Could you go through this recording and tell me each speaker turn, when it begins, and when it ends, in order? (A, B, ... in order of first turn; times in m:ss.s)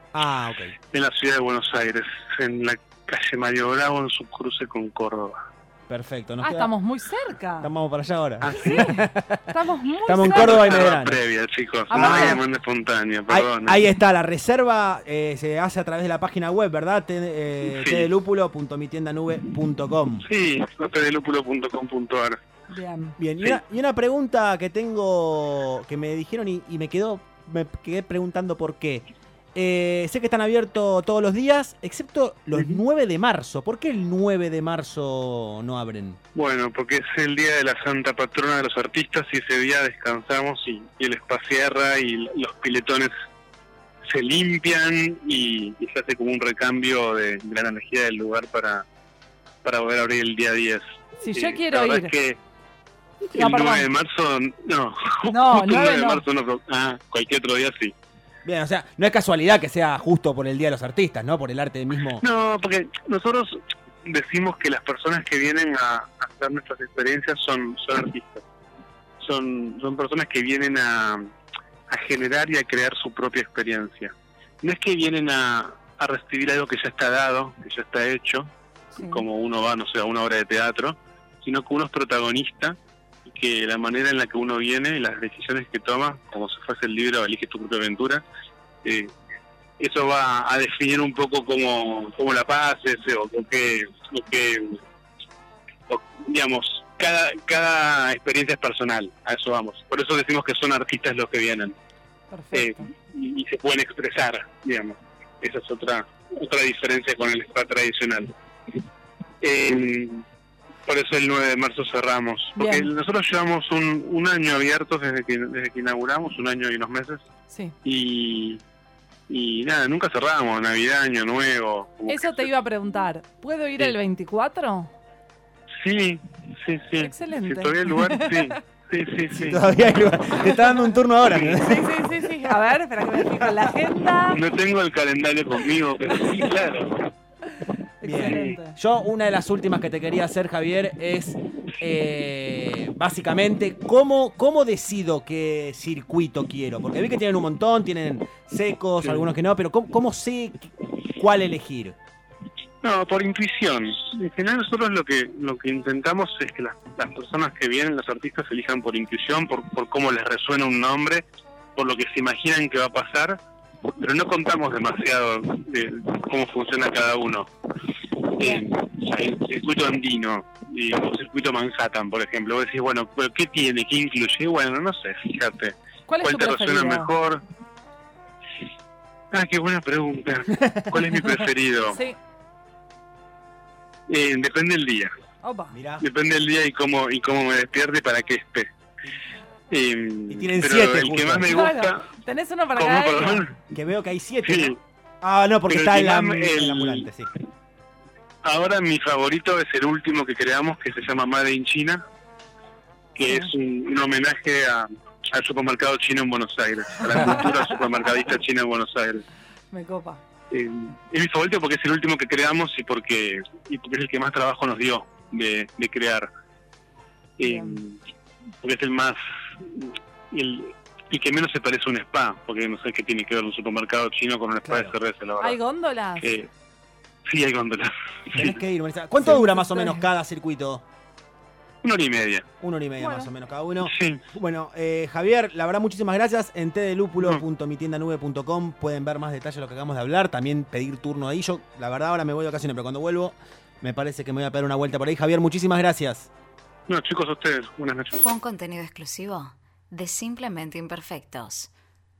0:00.1-0:00.8 A
0:00.9-0:05.4 B
0:05.9-0:06.7 A
0:06.4-0:07.7 C
0:07.6-0:09.4 A
0:08.4-0:08.9 B
0:09.5-0:10.4 C
0:10.1-0:11.2 A
0:10.2-0:13.8 B
0:11.9-0:12.3 C
0:11.9-0:12.4 A
0:13.3-0:20.2 A
0:17.6-0:18.1 B
0:20.2-0:22.4 B
0:22.7-0:23.2 C
0:23.2-0:36.2 A
0:36.3-0:43.1 B
0:44.0-0:48.9 B
0:49.6-0:52.4 B
0:51.2-0:52.1 C
0:53.3-0:57.9 B
0:53.4-0:53.8 C
0:55.3-0:56.1 C
0:58.4-1:02.2 A
1:02.2-1:08.4 B
1:09.2-1:11.2 B
1:11.9-1:18.5 B
1:19.0-1:19.2 C
1:19.0-1:28.2 B
1:28.8-1:29.1 B
1:29.8-1:34.8 B
1:35.9-1:41.8 B
1:42.3-1:42.9 C
1:42.5-1:48.3 B
1:49.4-1:50.2 B
1:50.9-1:57.3 B
1:52.6-1:52.9 C
1:57.8-1:58.6 B
1:59.3-2:02.5 B
2:02.1-2:04.9 C
2:05.8-2:09.6 B
2:07.0-2:08.2 C
2:09.3-2:12.2 A
2:11.2-2:11.7 B
2:11.8-2:14.4 C
2:14.3-2:17.1 B
2:18.0-2:18.7 C
2:18.0-2:30.6 A
2:18.2-2:18.6 B
2:29.0-2:29.3 B
2:31.2-2:32.0 A
2:32.8-2:43.4 B
2:44.0-2:47.5 B
2:48.2-2:57.4 B
2:56.1-2:57.1 C
2:59.3-3:02.0 B
3:01.9-3:02.2 C
3:04.1-3:05.1 B
3:05.4-3:05.8 C
3:05.7-3:06.1 A
3:06.0-3:08.7 B
3:09.7-3:12.1 B
3:10.3-3:11.6 A
3:11.5-3:13.5 C
3:12.7-3:13.6 B
3:13.7-3:17.3 A
3:14.4-3:14.8 B
3:15.7-3:17.1 B
3:18.4-3:22.0 B
3:23.2-3:29.2 B
3:29.7-3:30.2 C
3:30.5-3:36.3 B
3:37.4-3:38.0 B
3:37.4-3:37.8 C
3:38.6-3:45.6 B
3:45.4-3:46.2 C
3:46.2-3:46.5 B
3:47.3-3:48.6 B
3:48.3-3:50.8 A
3:49.3-3:50.0 C
3:51.8-3:52.4 B
3:52.6-4:06.3 A
3:53.0-3:53.3 C
3:53.8-3:54.2 B
4:06.9-4:08.2 B
4:08.2-4:11.7 D